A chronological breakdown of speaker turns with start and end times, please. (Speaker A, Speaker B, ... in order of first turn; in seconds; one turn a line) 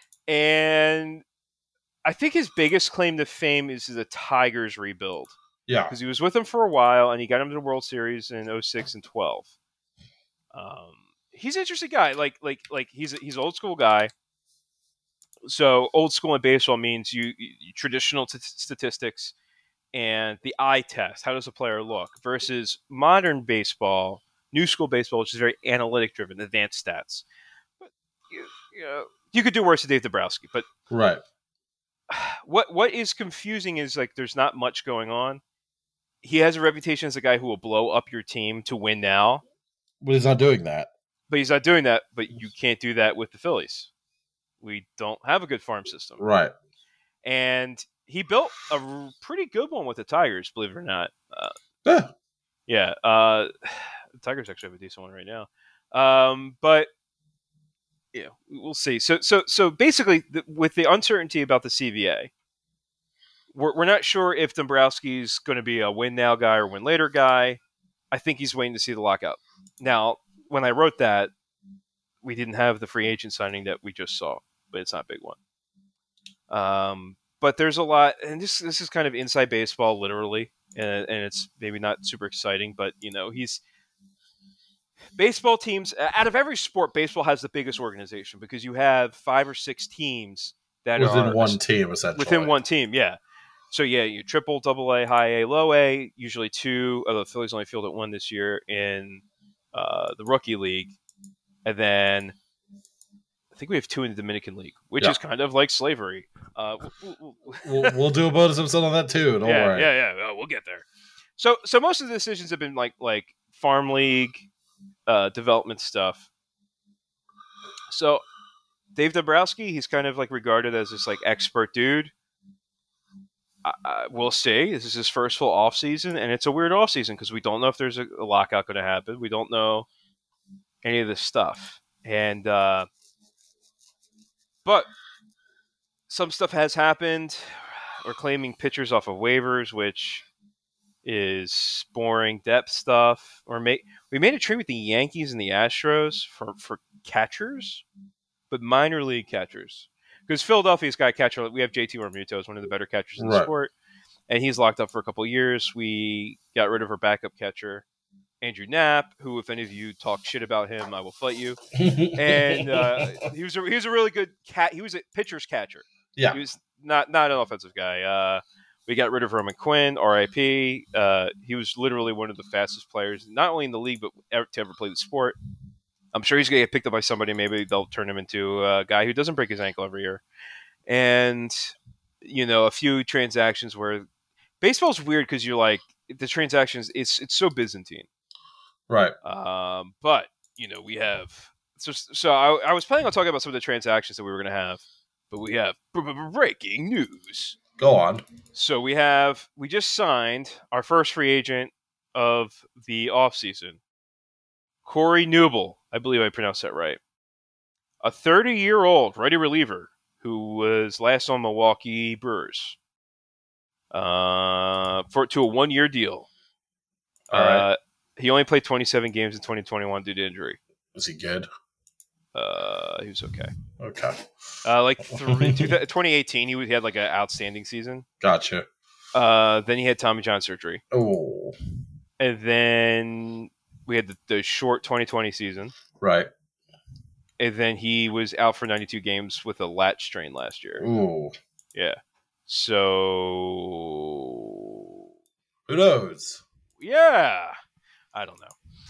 Speaker A: 0.3-1.2
Speaker A: 2.0-5.3
Speaker B: 5.7-5.9
Speaker A: 5.9-9.5
Speaker A: 10.5-14.1
Speaker A: 15.4-19.3
Speaker A: 19.9-27.2
Speaker A: 27.8-30.6
Speaker B: 30.9-31.2
Speaker A: 32.1-35.4
Speaker A: 36.2-39.4
Speaker B: 40.0-40.9
Speaker A: 41.3-43.9
Speaker A: 44.6-46.2
Speaker B: 46.2-46.5
Speaker A: 47.2-51.5
Speaker B: 51.8-52.1
Speaker A: 52.7-56.9
Speaker A: 58.1-62.3
Speaker A: 63.5-67.6
Speaker A: 68.1-71.3
Speaker A: 72.2-75.4
Speaker A: 76.5-83.6
Speaker A: 85.2-91.6
Speaker B: 91.0-92.5
Speaker A: 92.1-93.2
Speaker A: 93.7-100.9
Speaker A: 101.6-102.3
Speaker A: 103.5-108.0
Speaker B: 107.6-109.9
Speaker A: 109.4-110.8
Speaker A: 111.4-114.5
Speaker A: 115.0-116.3
Speaker A: 117.9-118.2
Speaker A: 118.9-122.1
Speaker A: 123.6-129.9
Speaker A: 130.8-132.9
Speaker A: 134.6-134.9
Speaker A: 136.1-137.4
Speaker A: 138.0-140.2
Speaker A: 141.0-147.8
Speaker A: 148.5-153.7
Speaker B: 153.2-153.5
Speaker A: 154.3-157.8
Speaker A: 158.4-161.6
Speaker B: 161.8-163.1
Speaker A: 162.1-175.4
Speaker A: 176.1-180.2
Speaker A: 180.9-184.1
Speaker A: 184.6-188.1
Speaker B: 188.9-189.1
Speaker A: 189.2-197.6
Speaker B: 197.8-198.2
Speaker A: 198.5-203.8
Speaker A: 204.8-207.0
Speaker A: 208.0-212.8
Speaker A: 213.9-216.3
Speaker A: 217.3-220.6
Speaker B: 217.3-217.7
Speaker B: 220.9-221.5
Speaker A: 222.3-223.5
Speaker B: 223.8-224.2
Speaker A: 224.6-228.0
Speaker B: 225.1-225.7
Speaker B: 228.2-228.7
Speaker A: 229.1-230.8
Speaker B: 230.9-231.6
Speaker A: 232.2-235.7
Speaker B: 236.0-236.3
Speaker A: 237.4-240.8
Speaker B: 240.8-241.3
Speaker A: 241.7-244.5
Speaker B: 245.7-246.4
Speaker A: 246.8-247.5
Speaker A: 248.1-248.5